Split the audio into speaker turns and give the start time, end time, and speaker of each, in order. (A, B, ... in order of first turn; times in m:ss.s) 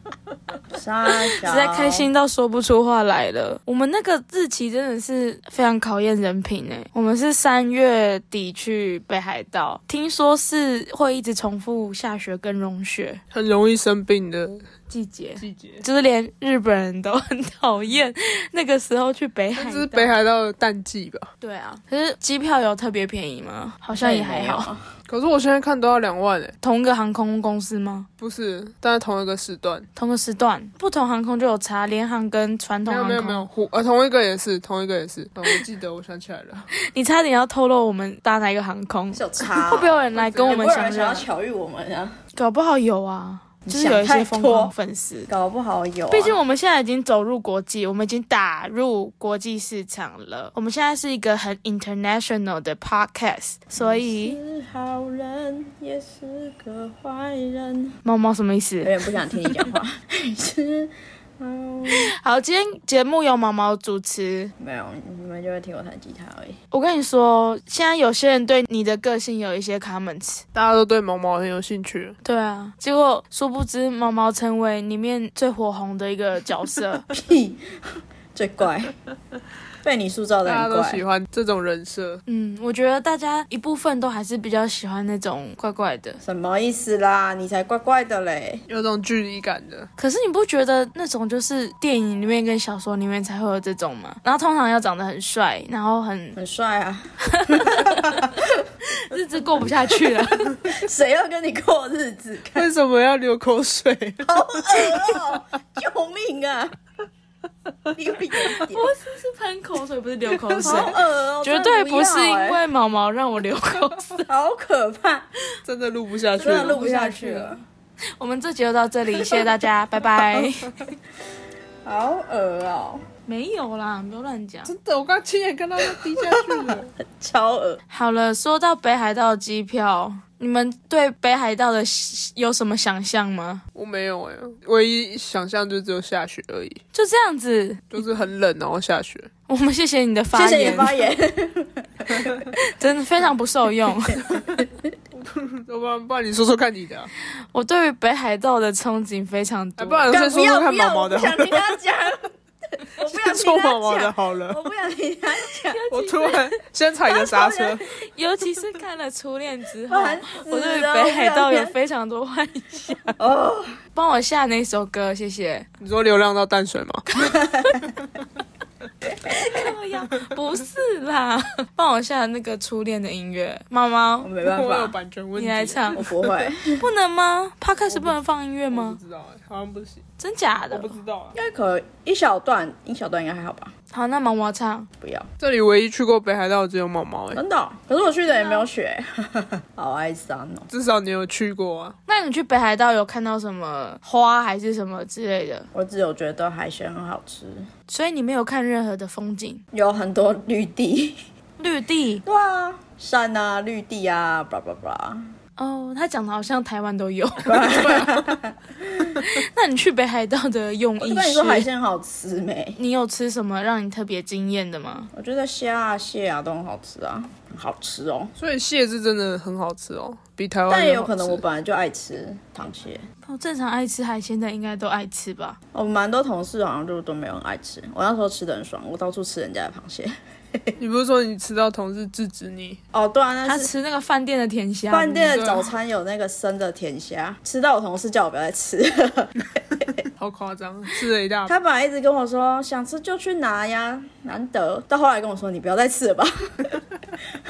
0:00.7-0:02.1 A
0:01.1-0:13.2 B
0:13.3-0:14.6 C
0:14.9-0:20.2 B
0:15.4-0:15.8 C
0:19.6-0:21.3 C
0:21.4-0:24.7 B
0:24.0-0:24.9 A
0:25.1-0:26.6 C
0:26.6-0:28.1 B
0:28.2-0:29.9 C
0:30.0-0:33.5 B
0:32.9-0:36.7 C
0:36.8-0:41.3 B
0:39.1-0:42.2 A
0:40.1-0:40.6 C
0:42.4-0:45.3 B
0:43.7-0:44.7 A
0:45.3-0:46.4 A
0:46.1-0:54.4 B
0:53.8-0:58.0 A
0:58.0-0:59.6 B
0:58.8-1:02.1 A
1:01.9-1:04.5 B
1:04.6-1:06.6 A
1:06.7-1:10.4 B
1:10.5-1:12.2 C
1:12.2-1:17.1 B
1:17.1-1:18.9 A
1:19.8-1:21.0 A
1:20.4-1:22.2 C
1:22.3-1:26.2 B
1:26.2-1:28.6 A
1:28.7-1:29.9 C
1:30.0-1:36.4 B
1:36.4-1:38.7 A
1:37.3-1:38.3 B
1:38.8-1:40.6 B
1:39.9-1:42.7 A
1:42.6-1:45.2 C
1:44.2-1:46.7 A
1:47.9-1:48.9 A
1:48.5-1:54.3 B
1:50.5-1:52.6 A
1:54.3-1:55.3 A
1:55.6-1:57.6 C
1:56.4-1:57.1 B
1:56.4-1:57.6 A
1:58.2-2:00.9 B
1:59.2-1:59.5 A
2:01.8-2:03.1 A
2:03.3-2:04.7 B
2:04.7-2:06.9 C
2:05.8-2:07.8 A
2:07.9-2:13.6 B
2:13.8-2:16.8 C
2:16.9-2:18.0 B
2:17.9-2:19.3 C
2:19.5-2:20.9 B
2:20.3-2:22.5 A
2:22.5-2:24.3 B
2:25.1-2:27.1 C
2:27.5-2:30.1 B
2:29.8-2:31.8 C
2:30.1-2:35.8 A
2:33.0-2:34.6 C
2:35.6-2:36.6 B
2:35.9-2:37.8 C
2:37.1-2:37.8 A
2:37.8-2:43.2 B
2:39.9-2:41.7 A
2:43.2-2:43.8 A
2:44.0-2:45.7 B
2:45.8-2:47.1 C
2:47.2-2:47.9 A
2:49.0-2:49.6 A
2:49.2-2:54.3 B
2:54.2-2:55.0 A
2:54.4-2:56.5 C
2:55.4-2:56.0 B
2:55.9-2:56.8 A
2:56.8-2:59.0 B
2:57.9-2:58.2 C
2:58.7-3:00.0 C
3:00.2-3:01.0 B
3:00.7-3:01.4 C
3:01.3-3:03.7 A
3:03.9-3:04.9 B
3:05.0-3:05.3 A
3:05.4-3:07.4 C
3:07.3-3:10.7 A
3:08.3-3:08.7 B
3:10.7-3:12.0 C
3:12.1-3:15.7 B
3:15.7-3:17.7 A
3:17.9-3:19.6 B
3:19.7-3:21.2 A
3:21.6-3:22.2 B
3:22.2-3:25.3 A
3:25.6-3:28.2 B
3:27.4-3:29.2 A
3:29.1-3:31.7 B
3:31.0-3:32.8 A
3:32.8-3:35.1 B
3:35.1-3:38.3 A
3:38.4-3:41.4 C
3:40.7-3:43.1 A
3:43.2-3:45.6 B
3:45.7-3:50.8 A
3:50.8-3:52.8 C
3:52.9-3:53.7 A
3:53.4-3:55.6 B
3:54.9-4:00.0 A
3:55.3-3:55.7 C
4:00.2-4:01.6 C
4:01.5-4:07.3 A